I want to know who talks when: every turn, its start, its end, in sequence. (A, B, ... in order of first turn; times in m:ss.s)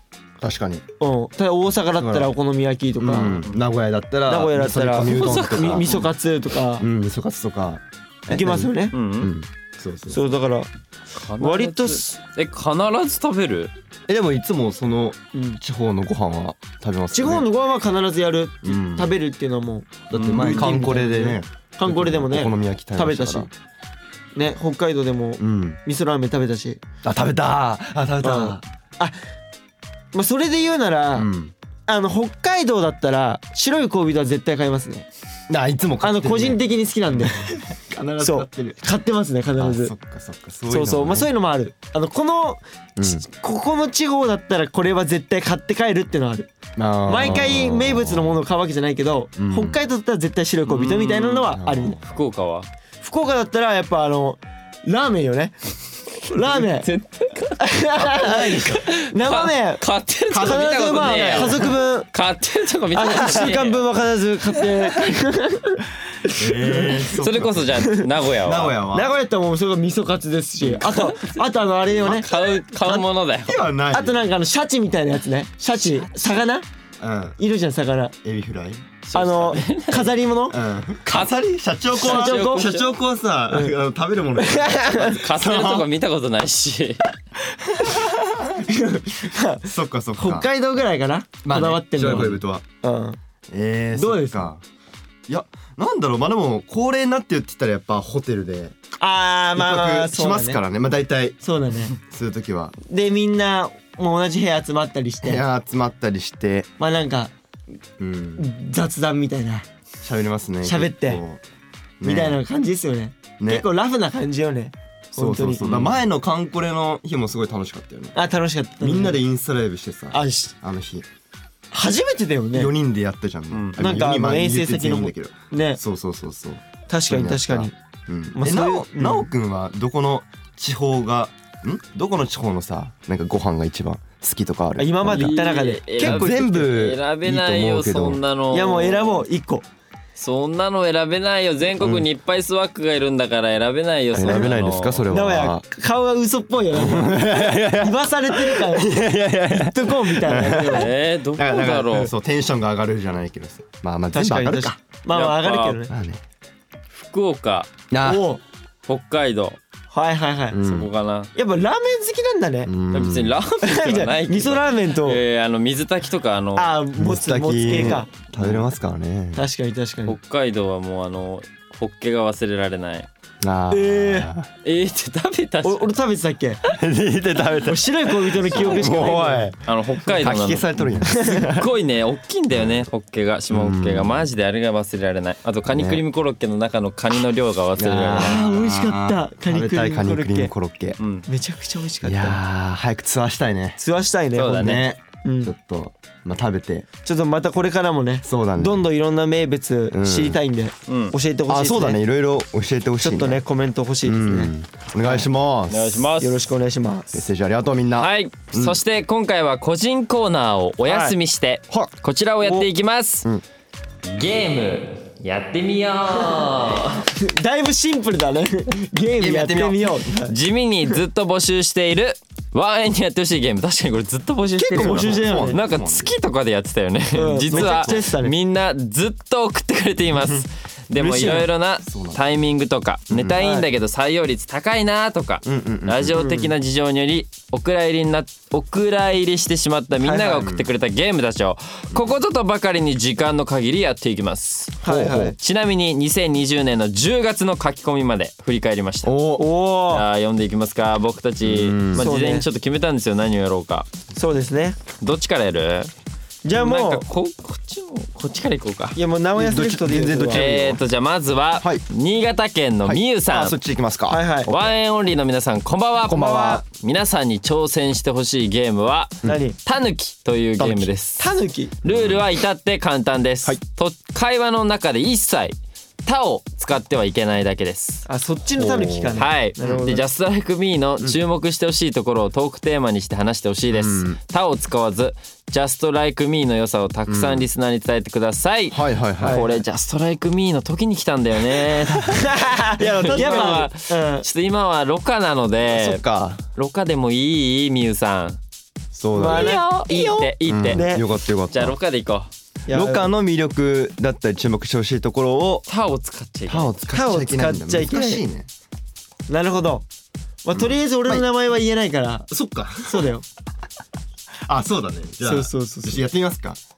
0:00.4-0:00.8 A
0:01.0-0:03.4 B
0:02.0-0:02.3 A
0:03.0-0:06.1 A
0:03.2-0:03.6 C
0:04.3-0:06.9 B
0:05.0-0:06.1 C
0:06.8-0:10.2 A
0:08.3-0:08.9 B
0:08.9-0:09.3 C
0:10.1-0:10.7 B
0:11.2-0:13.7 C
0:11.4-0:12.2 B
0:14.1-0:17.5 A
0:15.3-0:15.6 B
0:17.1-0:23.5 B
0:18.6-0:19.1 A
0:20.1-0:23.5 A
0:20.1-0:20.7 C
0:24.4-0:26.8 B
0:25.4-0:25.8 A
0:27.0-0:28.6 A
0:28.2-0:29.2 B
0:30.1-0:31.3 B
0:31.1-0:31.5 A
0:31.9-0:35.1 B
0:35.5-0:36.6 A
0:36.0-0:37.4 B
0:37.6-0:38.8 A
0:38.2-0:39.9 B
0:39.6-0:41.3 A
0:40.7-0:46.5 B
0:43.0-0:43.2 A
0:46.8-0:48.4 A
0:47.0-0:52.0 B
0:49.4-0:49.8 A
0:50.7-0:52.7 C
0:51.5-0:52.0 A
0:53.0-0:55.6 B
0:56.2-0:56.9 B
0:56.3-0:57.6 C
0:57.6-1:02.1 B
0:58.0-0:58.8 A
0:58.4-1:03.9 C
1:00.9-1:01.7 A
1:02.9-1:07.0 B
1:06.3-1:07.9 A
1:07.2-1:08.8 C
1:07.8-1:08.0 B
1:08.4-1:09.1 A
1:08.9-1:12.3 B
1:10.6-1:11.4 C
1:12.0-1:13.6 C
1:13.4-1:14.2 A
1:13.9-1:16.7 B
1:15.9-1:16.2 C
1:17.0-1:17.4 A
1:17.4-1:18.2 B
1:18.2-1:19.0 A
1:19.0-1:20.1 C
1:19.1-1:20.6 B
1:20.5-1:25.9 A
1:21.1-1:21.4 C
1:22.0-1:22.9 C
1:22.0-1:22.8 B
1:23.5-1:23.8 B
1:24.4-1:25.2 B
1:25.0-1:27.0 C
1:27.8-1:28.6 A
1:28.7-1:33.2 B
1:29.6-1:30.5 A
1:31.4-1:32.6 A
1:33.5-1:34.6 A
1:34.0-1:34.5 B
1:35.3-1:38.8 A
1:39.0-1:40.6 B
1:39.5-1:41.4 A
1:41.4-1:42.0 B
1:42.0-1:42.8 A
1:42.9-1:45.4 B
1:45.2-1:46.7 A
1:46.8-1:47.3 B
1:48.0-1:48.5 A
1:48.4-1:49.7 B
1:50.0-1:51.4 A
1:50.6-1:51.2 B
1:52.0-1:52.4 A
1:52.0-1:55.9 B
1:53.4-1:53.7 A
1:55.1-1:58.2 A
1:58.2-1:59.2 B
1:58.8-2:01.1 A
2:00.1-2:00.5 B
2:01.7-2:02.7 B
2:02.5-2:15.4 A
2:03.5-2:03.8 C
2:03.8-2:05.8 B
2:06.9-2:07.7 B
2:08.3-2:09.3 B
2:14.8-2:16.6 B
2:15.1-2:19.2 C
2:16.0-2:18.2 A
2:18.5-2:19.6 B
2:20.2-2:25.1 C
2:21.8-2:22.1 A
2:24.1-2:25.6 A
2:24.2-2:24.5 B
2:25.1-2:29.0 B
2:26.7-2:34.8 A
2:29.5-2:30.9 B
2:30.6-2:32.1 C
2:34.1-2:35.9 B
2:35.1-2:35.8 C
2:35.9-2:36.2 A
2:36.9-2:37.7 C
2:37.9-2:38.3 A
2:38.0-2:38.4 B
2:38.9-2:39.6 C
2:39.9-2:40.6 B
2:40.5-2:40.9 A
2:40.6-2:41.3 C
2:41.4-2:42.7 B
2:42.7-2:43.4 A
2:42.9-2:46.8 C
2:43.6-2:45.2 B
2:46.6-2:48.1 B
2:47.0-2:49.4 A
2:49.4-2:50.2 B
2:50.1-2:53.1 C
2:53.4-2:54.5 A
2:53.7-2:54.3 B
2:54.6-2:55.9 C
2:55.6-2:56.6 B
2:56.6-3:01.7 A
2:57.6-2:59.5 B
2:58.5-2:59.1 C
2:59.6-3:00.7 C
3:01.0-3:01.5 B
3:01.2-3:08.4 C
3:02.5-3:02.9 A
3:03.5-3:04.3 A
3:05.7-3:06.0 A
3:07.8-3:11.0 A
3:08.2-3:10.5 B
3:11.0-3:11.3 C
3:11.3-3:12.4 B
3:12.0-3:13.8 A
3:13.8-3:15.5 B
3:14.4-3:14.8 C
3:14.5-3:16.9 A
3:17.0-3:22.0 B
3:18.2-3:18.8 A
3:19.9-3:20.4 A
3:20.9-3:21.2 C
3:21.5-3:23.4 A
3:23.0-3:24.5 B
3:24.0-3:26.0 A
3:25.7-3:26.5 C
3:26.2-3:27.2 B
3:27.1-3:28.8 A
3:28.0-3:33.3 C
3:30.8-3:31.2 B
3:34.1-3:37.0 C
3:37.1-3:40.4 B
3:39.2-3:40.0 A
3:40.3-4:09.1 C
3:44.6-3:45.6 B
3:44.6-3:46.2 A
3:47.1-3:48.3 B
3:47.5-3:48.0 A
3:51.0-3:51.4 B
3:51.1-3:52.2 A
3:53.1-3:53.4 A
3:53.4-3:53.7 B
3:55.4-3:56.3 A
3:56.2-3:56.5 B
4:00.0-4:00.5 B
4:00.3-4:00.7 A
4:01.9-4:02.2 A
4:04.8-4:05.4 B
4:04.9-4:05.4 A
4:09.0-4:09.5 A
4:09.4-4:10.1 B
4:09.9-4:13.9 C
4:11.4-4:12.1 A
4:12.0-4:12.5 B
4:14.2-4:14.8 B
4:15.0-4:15.9 C
4:16.4-4:17.0 B
4:16.5-4:19.0 C
4:19.0-4:20.5 B
4:19.4-4:20.8 A
4:20.3-4:23.6 C
4:22.8-4:24.2 A
4:24.1-4:24.5 B
4:24.5-4:31.3 C
4:26.1-4:26.6 A
4:26.2-4:26.6 B
4:29.2-4:29.6 B
4:30.6-4:30.9 A
4:31.2-4:31.8 B
4:31.8-4:38.0 C
4:31.9-4:32.2 A
4:38.1-4:40.0 B
4:38.6-4:39.8 A
4:39.2-4:52.2 C
4:43.7-4:44.2 A
4:47.1-4:47.5 A
4:48.7-4:49.5 A
4:49.2-4:49.6 B
4:52.1-4:54.3 B
4:52.8-4:53.7 A
4:52.8-4:56.0 C
4:55.7-4:56.4 A
4:56.6-4:58.4 C
4:59.0-4:59.6 A
4:59.2-5:01.0 B
4:59.2-5:00.9 C
5:00.4-5:01.8 A
5:01.5-5:02.3 C
5:02.7-5:03.1 B
5:02.7-5:05.6 A
5:05.7-5:06.8 C
5:06.5-5:08.5 A
5:06.9-5:08.2 B
5:09.3-5:09.9 B
5:10.4-5:12.3 B
5:10.5-5:11.3 A
5:12.3-5:13.1 A
5:12.8-5:13.2 B
5:14.5-5:16.6 A
5:15.2-5:16.0 B